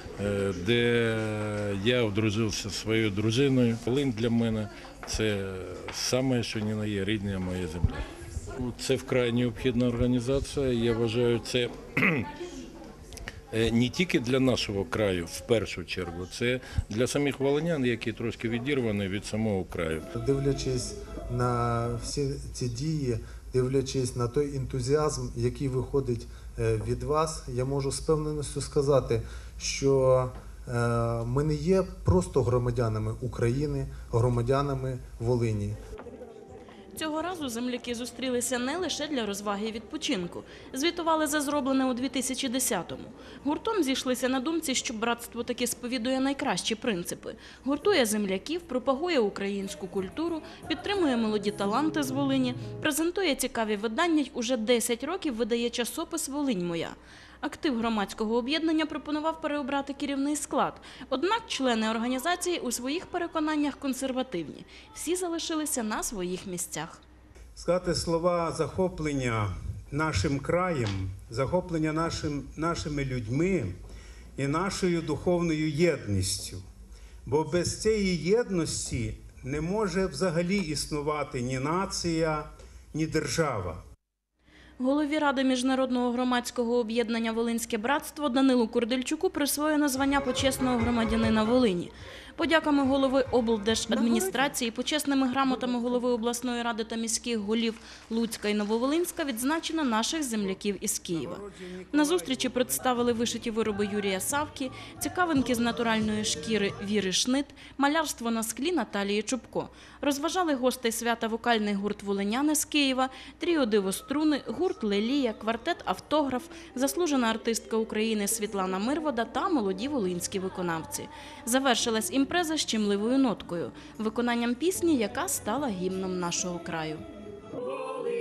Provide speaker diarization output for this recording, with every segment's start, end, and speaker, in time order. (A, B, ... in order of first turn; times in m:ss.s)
0:00.2-0:08.0 A
0:08.6-0:12.3 A
0:13.5-0:20.1 A
0:20.2-0:35.8 B
0:36.9-1:07.0 C
1:07.6-1:13.7 D
1:14.4-1:16.6 D
1:17.2-1:23.8 D
1:24.8-2:07.0 C
1:41.1-1:43.0 D